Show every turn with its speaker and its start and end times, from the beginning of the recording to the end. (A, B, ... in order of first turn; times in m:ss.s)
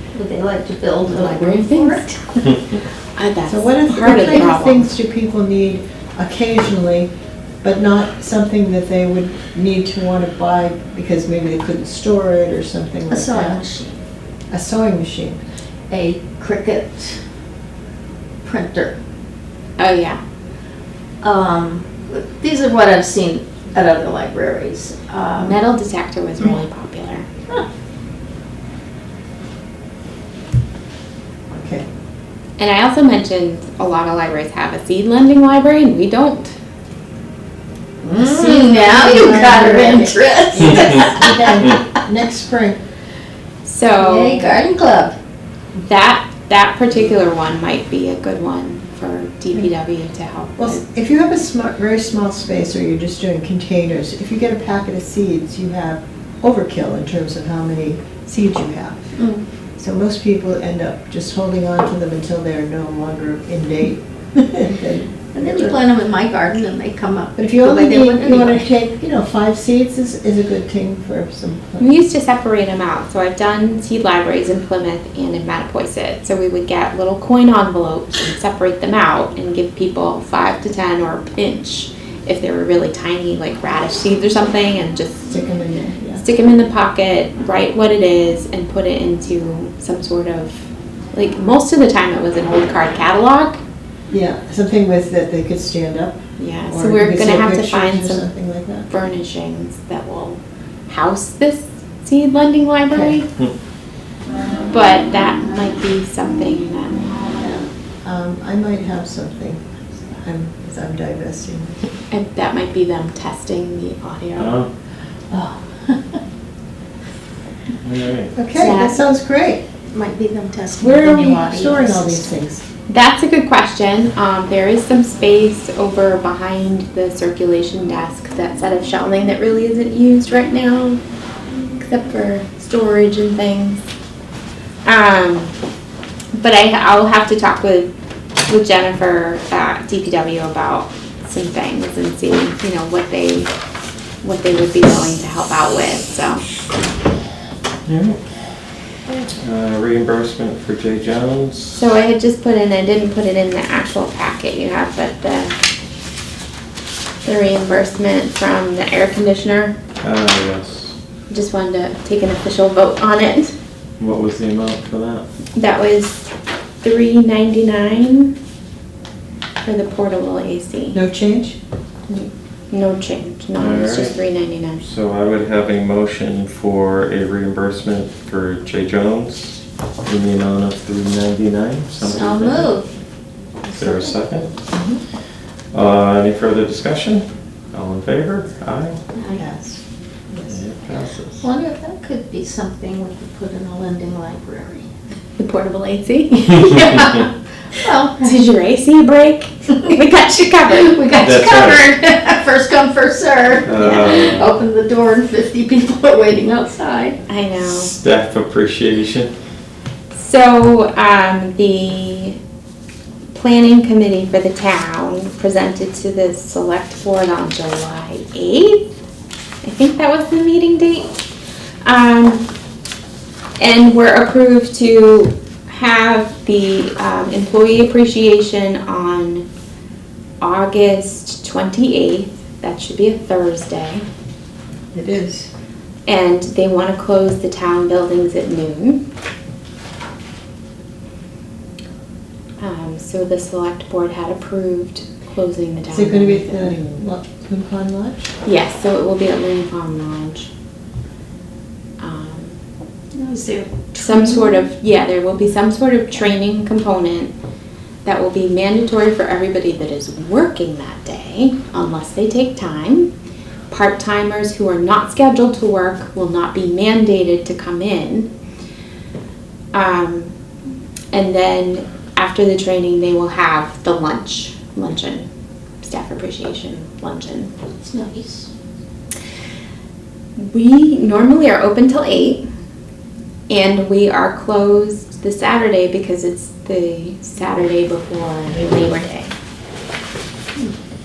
0:00.1-0:02.2 A
0:01.1-0:02.1 B
0:03.2-0:04.9 B
0:03.5-0:07.1 C
0:07.6-0:13.6 C
0:13.1-0:14.0 A
0:14.5-0:15.4 C
0:15.9-0:17.2 A
0:18.4-0:19.0 A
0:19.8-0:20.2 B
0:21.2-0:25.6 A
0:25.4-0:27.3 B
0:31.6-0:31.9 C
0:32.6-0:36.6 B
0:38.0-0:41.8 A
0:38.2-0:42.8 C
0:43.6-0:44.6 B
0:44.0-0:45.1 A
0:45.8-0:50.8 B
0:50.6-0:59.1 C
0:59.2-0:59.4 A
0:59.8-1:05.8 C
1:05.3-1:08.6 A
1:07.4-1:11.9 C
1:11.8-1:25.3 B
1:25.3-1:26.2 C
1:26.2-1:33.6 B
1:34.1-1:38.9 C
1:36.4-1:38.2 B
1:38.9-1:43.3 B
1:42.9-1:43.2 C
1:44.7-1:47.1 B
1:47.4-1:49.7 C
1:50.2-1:51.8 C
1:52.1-1:54.6 B
1:54.4-1:54.7 D
1:55.3-1:56.2 A
1:57.8-1:58.3 D
1:58.4-1:59.6 C
1:58.6-1:59.0 B
1:58.6-1:58.9 A
1:59.9-2:02.3 A
2:00.8-2:02.6 C
2:02.9-2:11.0 B
2:11.8-2:13.8 B
2:14.8-2:15.5 B
2:16.4-2:17.9 B
2:18.5-2:23.5 B
2:24.2-2:26.4 B
2:27.8-2:28.2 D
2:29.4-2:31.8 D
2:31.7-2:35.6 B
2:37.2-2:39.7 B
2:40.0-2:40.9 D
2:41.3-2:43.5 B
2:44.0-2:45.2 D
2:45.5-2:46.3 B
2:46.8-2:48.3 B
2:49.6-2:51.0 B
2:50.9-2:51.6 C
2:52.1-2:54.8 B
2:53.5-2:54.2 D
2:54.8-3:02.8 D
3:02.0-3:02.9 A
3:03.6-3:04.1 A
3:03.7-3:04.5 D
3:04.7-3:05.0 C
3:05.7-3:09.0 D
3:09.2-3:09.4 A
3:09.3-3:09.8 C
3:10.3-3:10.6 C
3:10.5-3:11.5 D
3:11.4-3:14.8 A
3:15.4-3:17.3 B
3:17.7-3:18.4 A
3:18.2-3:20.9 B
3:20.7-3:27.2 A
3:21.2-3:21.9 D
3:23.6-3:24.5 D
3:23.8-3:24.1 B
3:27.3-3:27.9 B
3:27.6-3:29.3 D
3:30.1-3:32.4 B
3:33.3-3:38.9 B
3:39.6-3:41.2 B
3:41.8-3:42.4 B
3:43.6-3:49.5 B
3:50.4-3:54.0 B
3:54.9-3:55.5 C
3:56.1-3:59.0 B
4:02.6-4:06.7 B
4:05.9-4:08.3 C
4:08.4-4:10.5 B
4:12.0-4:12.6 B
4:13.1-4:14.6 A
4:14.0-4:17.3 B
4:18.0-4:23.1 B
4:23.7-4:28.3 B
4:29.7-4:30.3 B
4:31.1-4:35.3 B
4:35.8-4:37.5 B
4:37.8-4:38.5 A
4:40.4-4:42.4 B
4:43.5-4:49.3 B